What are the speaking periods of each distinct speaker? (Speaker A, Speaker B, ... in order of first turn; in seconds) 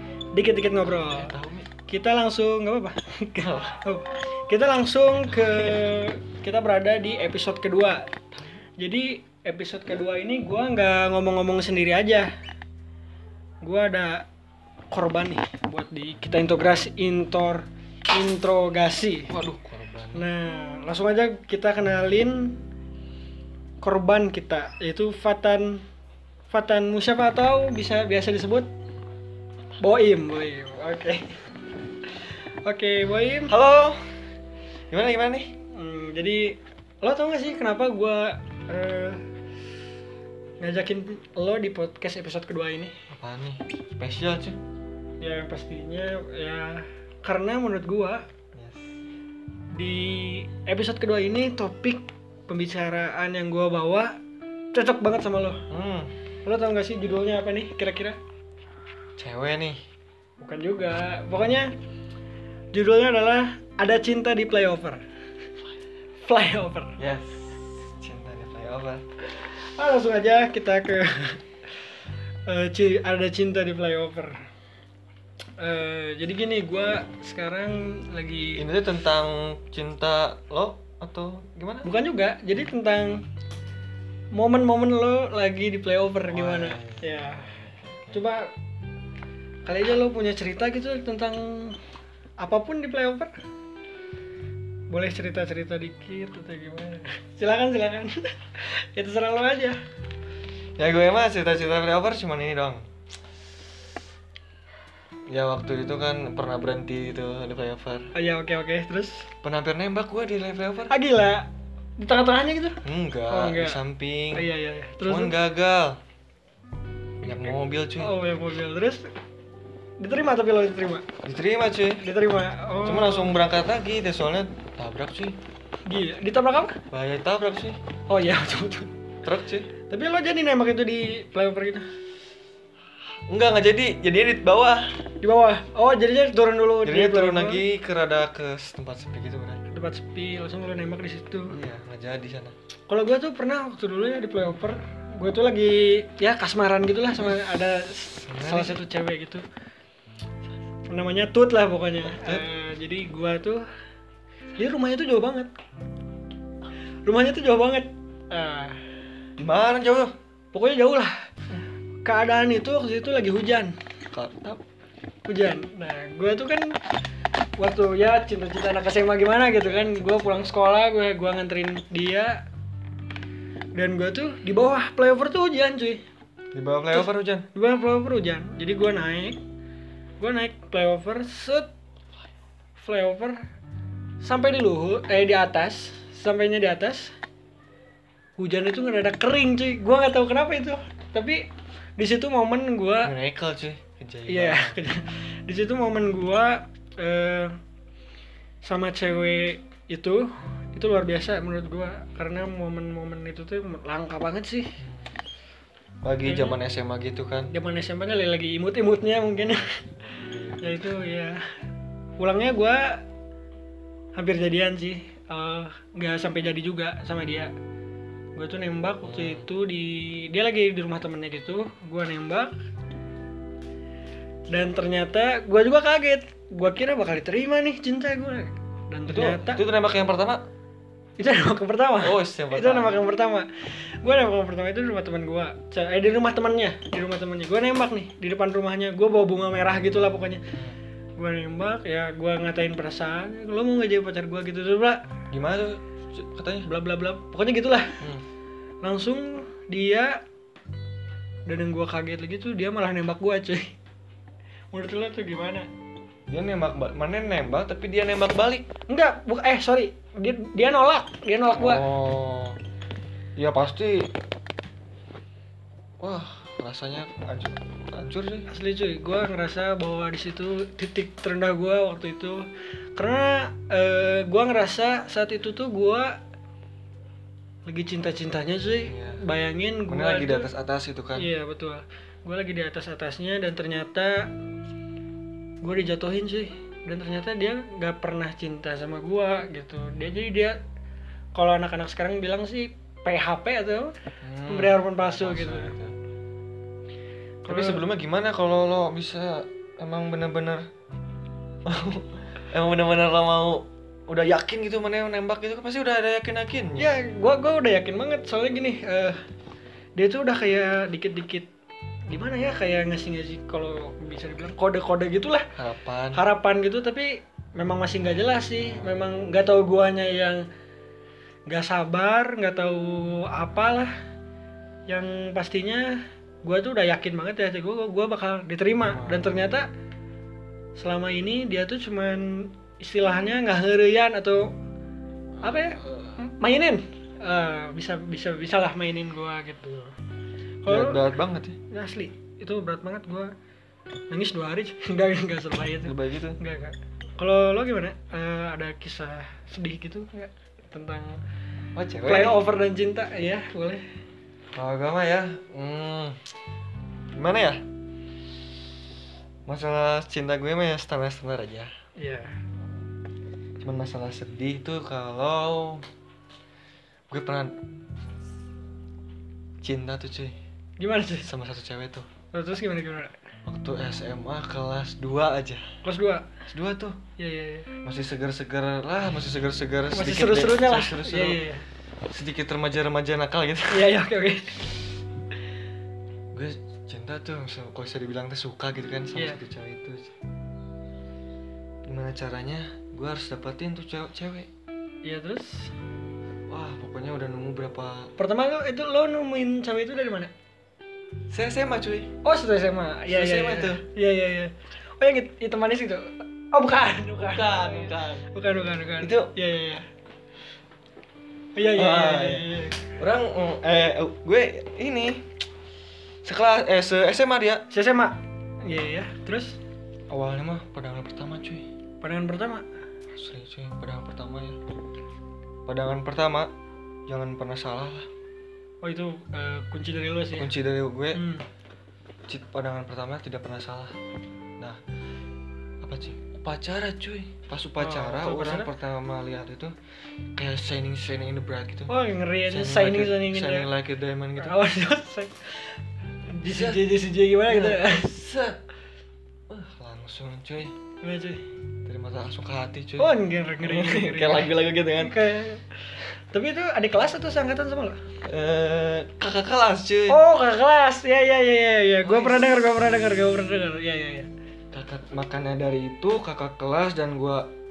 Speaker A: 0.3-1.3, 1.9-8.1, 8.8-12.3, 13.6-14.2, 14.9-19.3, 20.1-22.6, 23.8-25.8, 26.5-28.7, 29.8-31.3, 32.2-33.5, 35.7-39.2, 40.6-42.9, 45.2-48.2, 49.7-54.1, 54.7-55.6, 56.4-58.2, 60.4-61.7, 62.7-65.0, 66.2-67.0, 69.4-71.4, 72.5-74.4, 75.6-78.7, 81.8-83.2, 84.3-87.5, 88.1-88.5, 89.7-91.8, 92.4-93.3, 94.9-99.8, 108.1-109.3, 110.9-111.5, 112.0-113.8, 114.3-115.3, 117.2-119.0, 120.0-121.0, 122.0-123.3, 125.9-126.8, 128.1-128.9, 129.9-131.8, 135.2-137.6, 139.7-141.6, 142.9-149.4, 150.9-153.6, 154.6-155.5, 157.1-158.8, 160.5-161.1, 162.0-163.8, 165.2-166.8, 167.6-172.4, 173.8-176.0, 176.9-179.4, 180.2-181.7, 182.8-183.4, 184.2-187.1, 188.4-191.4, 192.0-193.1, 194.3-197.5, 198.6-204.8, 206.2-206.6, 207.5-209.8, 210.6-211.4, 212.2-213.0, 214.1-217.5, 218.4-222.6, 224.5-229.6, 231.2-240.4, 241.2-245.0, 246.7-248.0, 248.8-250.2, 251.5-253.7, 254.7-255.7, 258.9-261.8, 268.5-272.4, 273.0-276.2, 277.7-280.5, 281.2-284.3, 285.6-290.6, 291.4-293.9, 294.5-295.7, 297.4-297.8, 306.8-309.2, 310.0-311.5, 312.1-315.5, 316.1-320.4, 321.5-323.9, 324.9-329.7, 330.8-334.5, 335.4-339.9, 340.6-341.0, 341.7-343.3, 344.1-351.2, 352.0-353.8, 362.0-362.4, 370.8-371.3, 372.3-373.1, 375.8-376.3, 377.2-377.7, 379.9-381.6, 383.7-384.8, 389.1-389.4, 395.0-395.7, 398.2-400.3, 402.2-409.8, 411.6-412.9, 417.7-419.6, 422.0-422.6, 428.8-430.5, 431.1-431.4, 437.8-438.7, 441.9-443.7, 444.4-445.8, 446.3-448.1, 451.0-451.4, 453.0-458.0, 460.1-464.3
Speaker B: 0.8-1.7, 3.4-3.8, 5.3-5.9, 19.3-20.3, 33.5-34.1, 34.9-35.5, 43.1-44.6, 48.5-48.9, 55.7-56.1, 59.2-59.8, 67.0-69.0, 78.5-81.9, 86.3-88.2, 100.8-102.8, 105.3-108.1, 109.4-110.9, 112.8-114.5, 115.0-116.0, 117.2-118.2, 121.2-122.0, 122.8-125.4, 126.9-127.8, 129.2-129.7, 133.3-135.0, 136.8-139.6, 141.5-142.6, 148.1-148.8, 152.1-152.5, 159.4-160.1, 164.1-164.6, 169.8-170.4, 176.5-177.5, 193.0-194.8, 204.8-205.2, 206.0-207.5, 210.1-210.9, 219.0-219.5, 229.1-230.4, 232.0-233.1, 240.5-240.8, 245.3-246.7, 256.3-258.7, 261.5-262.6, 263.4-264.1, 266.0-268.5, 278.9-279.2, 279.9-281.3, 294.2-296.0, 297.5-300.6, 301.6-306.9, 315.6-316.2, 318.6-319.1, 328.8-329.6, 335.4-336.2, 340.7-341.6, 345.8-346.4, 351.8-352.4, 354.6-356.2, 357.1-357.6, 359.5-361.7, 363.6-365.8, 367.1-367.6, 369.6-370.4, 371.2-372.1, 373.5-375.7, 376.5-377.0, 377.8-381.4, 382.1-383.9, 386.3-390.1, 391.9-394.5, 396.5-398.1, 401.3-402.1, 403.1-403.9, 407.2-408.2, 409.0-409.3, 411.7-415.3, 416.2-417.7, 420.1-421.7, 423.1-424.6, 425.7-426.5, 427.1-428.1, 430.3-431.2, 432.3-433.9, 435.8-439.7, 440.4-441.9, 442.4-444.6, 446.4-446.9, 447.5-448.6, 449.5-450.7, 451.9-455.2, 458.2-460.2, 462.0-462.6, 464.7-467.5